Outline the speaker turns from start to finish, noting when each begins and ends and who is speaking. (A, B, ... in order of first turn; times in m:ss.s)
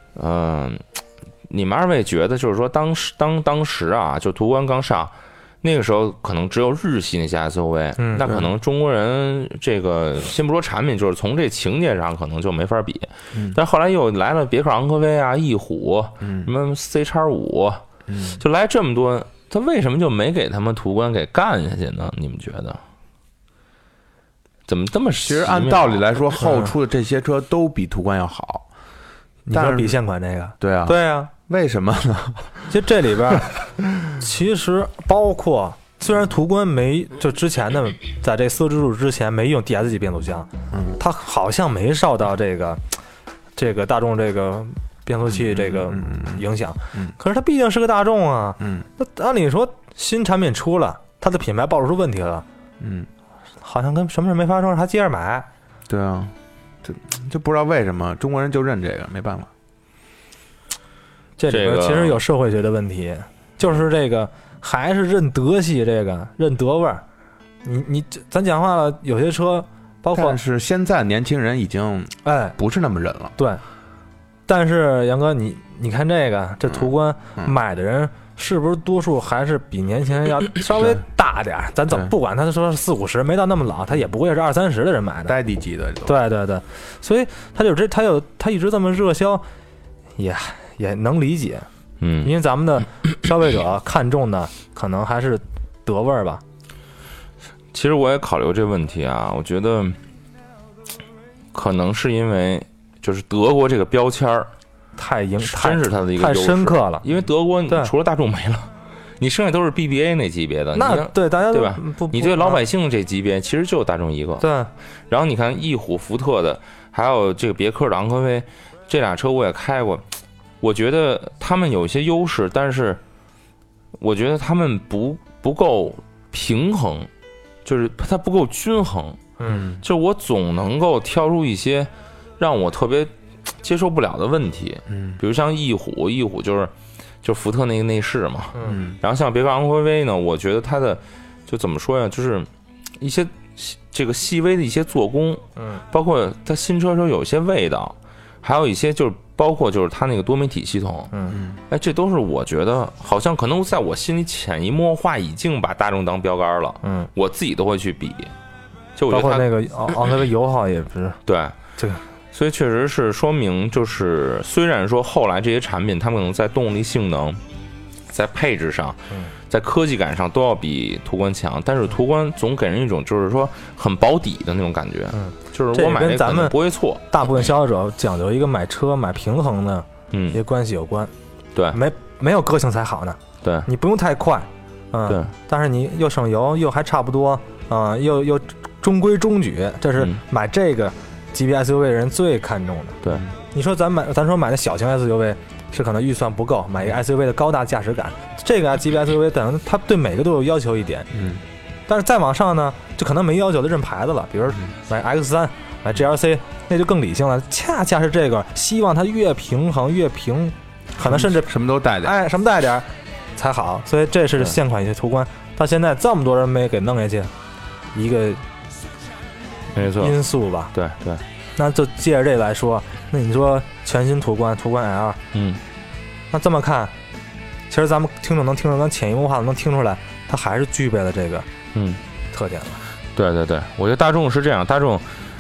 0:00.1-0:00.8 A
0:01.5-0:17.8 A
0:08.0-0:08.2 B
0:08.2-0:08.5 C
0:16.2-0:16.5 C
0:18.1-0:18.4 C
0:18.4-0:22.8 A
0:24.7-0:26.0 A
0:25.2-0:28.6 C
0:26.4-0:26.7 B
0:29.5-0:31.3 B
0:29.5-0:30.0 C
0:30.6-0:32.6 C
0:32.7-0:33.5 B
0:34.1-0:43.0 B
0:40.7-0:41.0 C
0:43.6-0:52.4 B
0:45.3-0:47.1 C
0:48.6-0:48.8 C
0:52.8-0:53.1 C
0:53.6-0:55.5 B
0:55.9-0:59.5 C
1:01.4-1:07.0 B
1:01.5-1:02.2 A
1:07.6-1:10.4 B
1:10.1-1:13.3 C
1:12.2-1:12.6 B
1:13.4-1:13.6 B
1:14.5-1:25.3 B
1:25.3-1:26.2 C
1:26.0-1:29.4 B
1:30.2-1:31.7 B
1:32.0-1:32.3 A
1:32.2-1:36.4 B
1:37.7-1:40.0 A
1:41.5-1:44.5 A
1:45.0-1:47.0 B
1:45.4-1:54.5 A
1:50.7-1:52.6 B
1:54.4-1:54.7 B
1:55.1-2:00.0 A
2:00.6-2:03.0 A
2:04.0-2:07.1 A
2:07.6-2:09.2 A
2:09.4-2:09.6 B
2:09.4-2:09.8 C
2:09.8-2:16.7 A
2:14.9-2:15.2 C
2:17.2-2:31.1 A
2:18.6-2:19.0 C
2:25.6-2:25.8 B
2:31.1-2:31.4 B
2:31.3-2:31.6 C
2:31.7-2:38.3 A
2:36.8-2:37.1 B
2:39.0-2:39.5 A
2:39.1-2:41.2 B
2:41.2-2:41.6 A
2:41.8-2:42.0 B
2:42.3-2:47.4 A
2:48.1-2:57.0 A
2:55.1-2:56.6 B
2:57.1-3:01.1 B
3:00.1-3:00.4 A
3:01.7-3:13.0 B
3:03.4-3:03.7 A
3:13.5-3:21.1 B
3:21.1-3:21.4 C
3:21.9-3:31.5 B
3:31.0-3:32.1 C
3:32.0-3:37.3 B
3:37.9-3:38.4 B
3:39.7-3:40.2 A
3:40.0-3:40.7 B
3:40.7-3:41.2 A
3:41.6-3:45.2 B
3:45.3-3:45.6 A
3:46.3-3:46.9 B
3:47.7-3:51.5 B
3:51.7-3:52.0 A
3:52.3-3:52.8 B
3:53.1-3:55.2 A